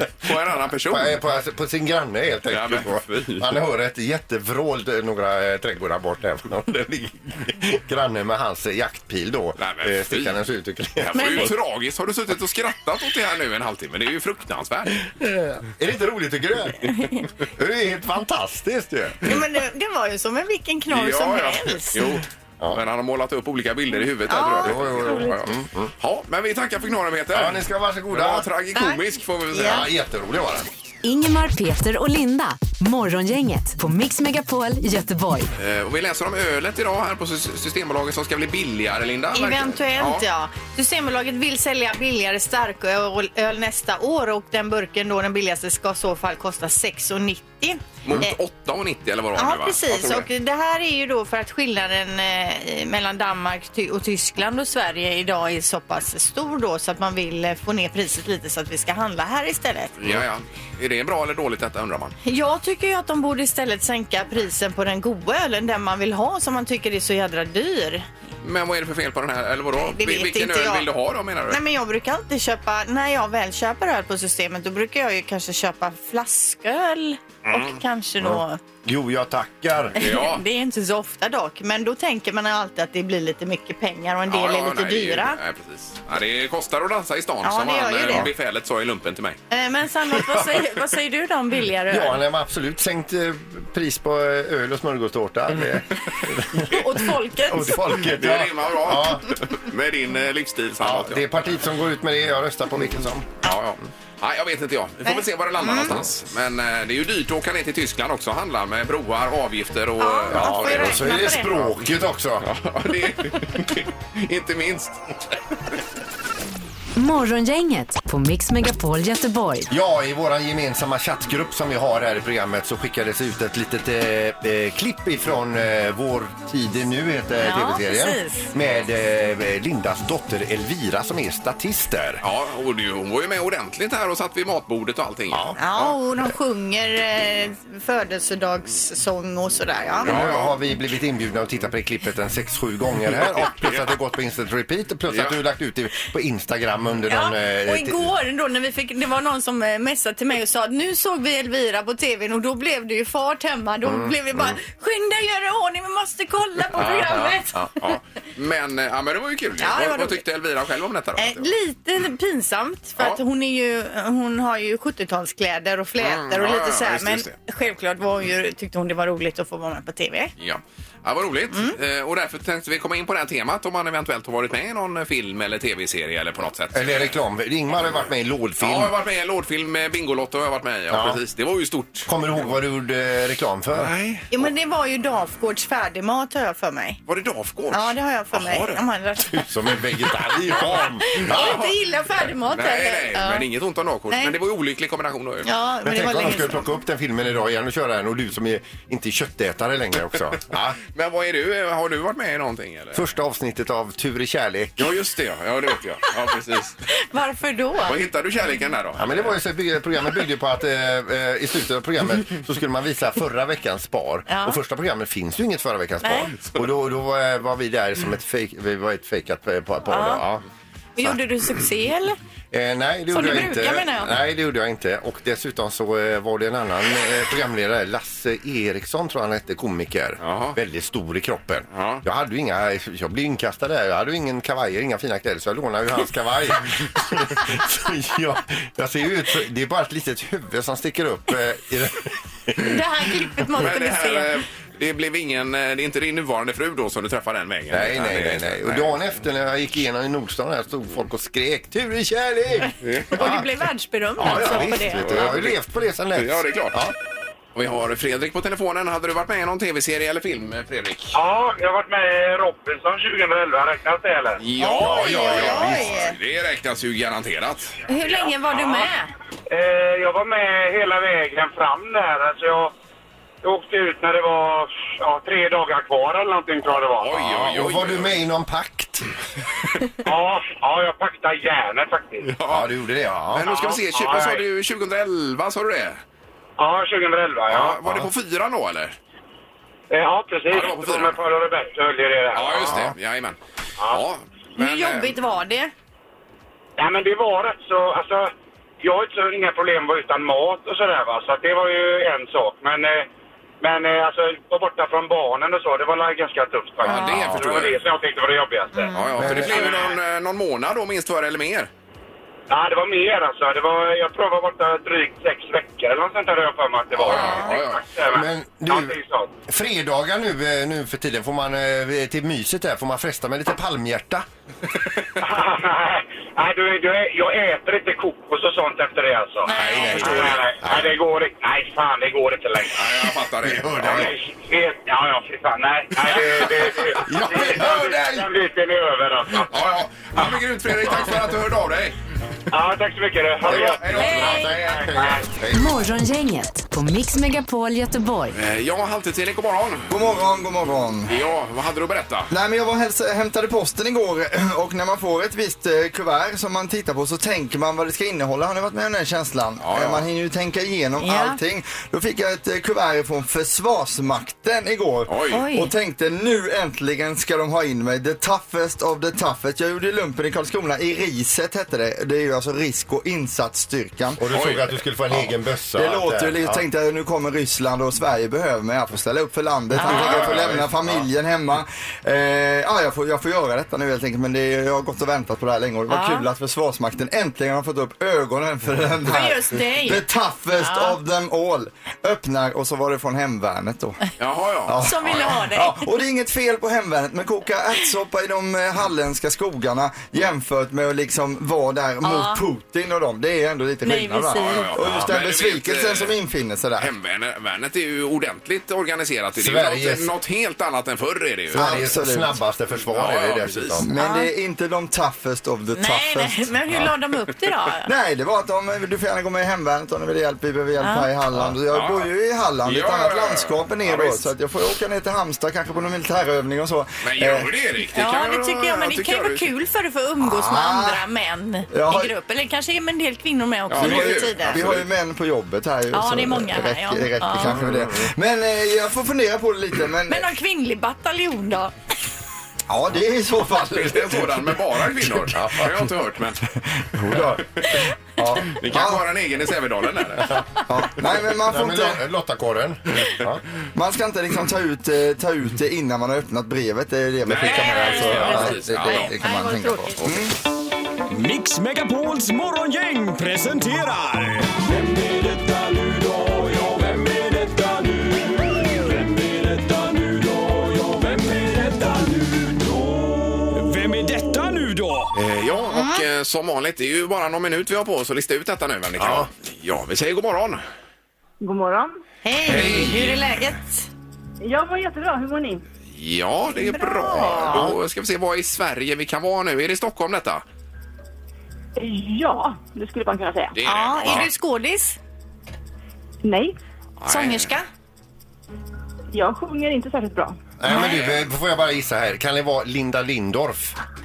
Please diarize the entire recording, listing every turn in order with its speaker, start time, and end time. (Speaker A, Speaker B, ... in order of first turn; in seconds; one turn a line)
Speaker A: 0.2-1.2
Speaker B: 0.9-11.5
Speaker A: 2.5-3.6
Speaker A: 9.6-10.4
Speaker A: 11.0-15.1
Speaker C: 11.2-11.5
Speaker B: 15.1-16.9
Speaker B: 17.5-19.4
Speaker C: 19.2-22.0
Speaker A: 20.9-29.9
Speaker C: 24.3-25.3
Speaker B: 24.6-25.9
Speaker B: 27.3-28.5
Speaker C: 28.8-29.9
Speaker B: 29.5-30.7
Speaker D: 31.0-35.5
Speaker A: 35.6-40.2
Speaker C: 39.3-48.4
Speaker A: 48.0-50.3
Speaker C: 49.4-60.0
Speaker A: 60.0-62.2
Speaker C: 62.2-68.1
Speaker A: 68.4-71.6
Speaker C: 69.9-70.9
Speaker C: 71.5-78.6
Speaker A: 77.5-77.8
Speaker B: 78.2-80.0
Speaker A: 80.0-80.4
Speaker C: 80.0-85.4
Speaker A: 84.3-89.4
Speaker C: 87.4-88.3
Speaker C: 89.5-92.2
Speaker B: 91.9-99.3
Speaker C: 96.7-97.9
Speaker A: 98.0-101.3
Speaker B: 100.8-103.3
Speaker A: 103.4-111.7
Speaker C: 105.0-106.0
Speaker C: 110.0-111.6
Speaker B: 110.3-112.5
Speaker A: 112.4-115.4
Speaker D: 117.0-119.7
Speaker B: 119.7-132.2
Speaker C: 127.4-128.5
Speaker A: 132.2-135.9
Speaker B: 135.3-135.6
Speaker C: 135.6-140.2
Speaker A: 140.0-140.6
Speaker B: 140.0-148.1
Speaker A: 143.1-143.9
Speaker A: 145.1-145.4
Speaker C: 147.1-157.9
Speaker B: 153.9-154.6
Speaker A: 156.8-161.5
Speaker C: 159.6-160.2
Speaker C: 161.2-170.3
Speaker A: 166.0-167.3
Speaker A: 170.4-177.1
Speaker B: 176.7-178.9
Speaker A: 178.6-182.1
Speaker B: 180.9-181.2
Speaker B: 182.1-183.9
Speaker A: 183.7-184.3
Speaker C: 184.3-187.0
Speaker A: 187.1-188.8
Speaker C: 187.7-189.5
Speaker B: 189.3-191.6
Speaker A: 190.5-191.7
Speaker C: 190.5-193.5
Speaker A: 192.5-195.5
Speaker C: 195.4-196.7
Speaker B: 195.8-200.8
Speaker A: 200.5-203.0
Speaker B: 202.9-204.9
Speaker A: 204.8-206.8
Speaker C: 206.9-208.0
Speaker A: 207.8-209.3
Speaker B: 209.0-220.4
Speaker C: 214.3-214.6
Speaker C: 216.0-216.3
Speaker C: 219.9-220.2
Speaker C: 221.0-222.2
Speaker B: 222.5-242.8
Speaker C: 223.1-224.1
Speaker A: 230.2-230.6
Speaker A: 231.7-232.0
Speaker C: 242.6-244.3
Speaker A: 243.5-249.1
Speaker B: 247.7-253.4
Speaker A: 252.8-253.3
Speaker C: 253.1-255.3
Speaker B: 254.2-256.9
Speaker A: 254.2-255.6
Speaker A: 256.1-256.8
Speaker A: 257.6-261.2
Speaker E: 261.1-264.4
Speaker A: 264.4-267.8
Speaker C: 264.6-266.2
Speaker B: 265.1-265.9
Speaker C: 267.9-269.1
Speaker E: 269.5-272.7
Speaker E: 273.4-277.1
Speaker A: 277.0-278.2
Speaker B: 277.1-279.1
Speaker E: 280.1-282.3
Speaker A: 282.2-282.7
Speaker B: 282.4-283.5
Speaker A: 283.3-286.0
Speaker E: 283.4-284.4
Speaker E: 286.6-287.8
Speaker A: 287.5-289.0
Speaker B: 287.8-288.1
Speaker E: 289.9-292.8
Speaker A: 290.5-291.2
Speaker A: 292.3-295.1
Speaker B: 292.6-292.9
Speaker E: 293.8-294.0
Speaker C: 294.6-295.7
Speaker E: 296.8-303.1
Speaker E: 303.6-308.9
Speaker A: 306.8-307.8
Speaker C: 306.9-307.2
Speaker C: 308.7-309.4
Speaker A: 308.9-311.7
Speaker B: 309.2-309.9
Speaker E: 312.5-319.4
Speaker A: 317.0-317.8
Speaker C: 317.2-317.5
Speaker B: 318.1-319.0
Speaker B: 319.5-324.3
Speaker E: 325.2-332.9
Speaker C: 329.4-330.3
Speaker A: 329.5-330.4
Speaker A: 332.8-334.1
Speaker B: 333.4-334.1
Speaker E: 333.9-339.6
Speaker B: 336.9-338.3
Speaker A: 339.5-342.0
Speaker B: 340.9-341.2
Speaker E: 342.5-345.3
Speaker A: 343.4-344.8
Speaker B: 343.4-345.8
Speaker D: 345.5-348.4
Speaker A: 348.3-349.9
Speaker F: 349.9-351.2
Speaker A: 351.1-352.3
Speaker F: 352.3-374.2
Speaker A: 359.6-360.1
Speaker C: 361.0-361.4
Speaker A: 365.1-365.4
Speaker C: 365.3-365.7
Speaker B: 374.2-376.6
Speaker A: 374.3-374.7
Speaker F: 375.8-394.0
Speaker C: 379.8-380.2
Speaker A: 379.9-380.7
Speaker B: 379.9-381.0
Speaker C: 385.9-386.3
Speaker C: 389.1-390.1
Speaker C: 390.6-391.0
Speaker A: 394.2-395.1
Speaker F: 394.7-406.9
Speaker C: 394.8-395.9
Speaker C: 402.0-402.4
Speaker C: 403.8-404.7
Speaker A: 404.4-406.2
Speaker B: 404.8-405.1
Speaker A: 406.8-411.9
Speaker B: 409.4-410.1
Speaker B: 411.5-413.9
Speaker F: 411.5-412.4
Speaker A: 412.9-413.8
Speaker F: 413.8-416.5
Speaker C: 414.0-414.3
Speaker C: 415.8-417.9
Speaker F: 417.9-427.5
Speaker C: 420.8-421.1
Speaker A: 421.7-422.1
Speaker A: 422.6-424.3
Speaker A: 427.0-429.5
Speaker C: 427.9-434.6
Speaker F: 430.2-431.0
Speaker F: 431.7-432.1
Speaker A: 433.7-434.9
Speaker F: 433.8-440.3
Speaker C: 435.9-437.6
Speaker B: 437.5-438.1
Speaker C: 440.1-441.7
Speaker F: 442.7-445.3
Speaker A: 443.7-446.4
Speaker B: 445.3-445.9
Speaker F: 446.8-449.0
Speaker A: 448.5-450.4
Speaker F: 450.7-452.0
Speaker B: 451.1-453.4
Speaker F: 453.8-460.4
Speaker A: 457.2-459.1
Speaker C: 457.4-460.0
Speaker G: 461.1-475.1
Speaker A: 475.1-480.6
Speaker C: 475.7-476.1
Speaker B: 479.0-479.3
Speaker H: 481.4-482.0
Speaker C: 482.2-483.9
Speaker A: 482.5-483.2
Speaker H: 484.4-485.6
Speaker A: 485.9-490.4
Speaker C: 486.6-487.7
Speaker H: 491.8-493.6
Speaker A: 493.5-494.3
Speaker C: 493.6-495.0
Speaker H: 496.2-496.6
Speaker A: 497.0-497.5
Speaker C: 497.1-497.7
Speaker H: 499.1-500.4
Speaker B: 500.6-503.8
Speaker A: 500.7-501.3